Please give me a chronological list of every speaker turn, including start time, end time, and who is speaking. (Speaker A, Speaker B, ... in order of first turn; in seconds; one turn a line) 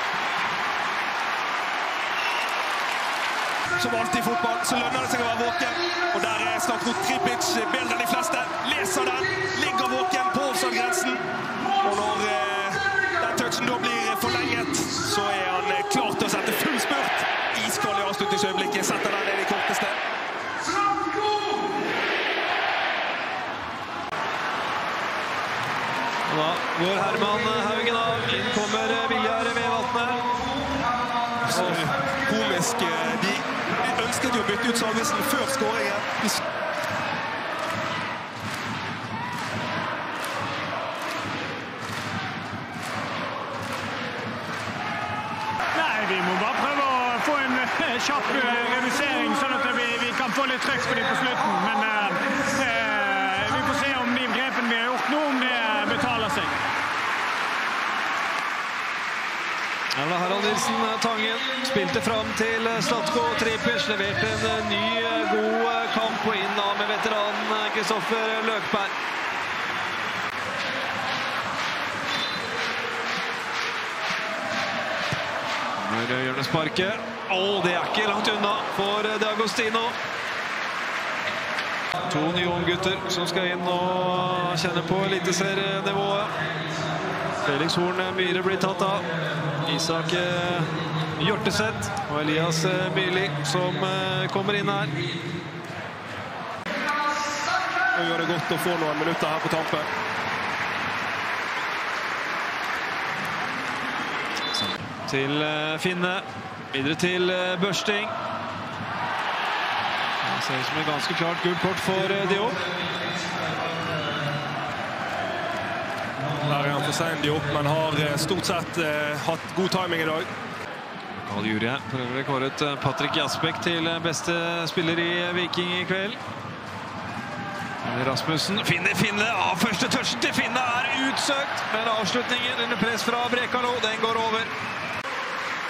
Speaker A: 3.8-11.2
Speaker A: 11.8-20.0
Speaker B: 26.3-30.3
Speaker B: 31.4-31.8
Speaker A: 31.4-36.4
Speaker C: 45.7-56.6
Speaker B: 59.9-68.9
Speaker B: 75.8-80.0
Speaker B: 82.0-86.4
Speaker B: 87.4-95.0
Speaker A: 97.9-99.9
Speaker B: 104.5-108.1
Speaker B: 110.2-112.7
Speaker A: 116.4-120.3
Speaker B: 121.2-126.2
Speaker B: 127.8-134.5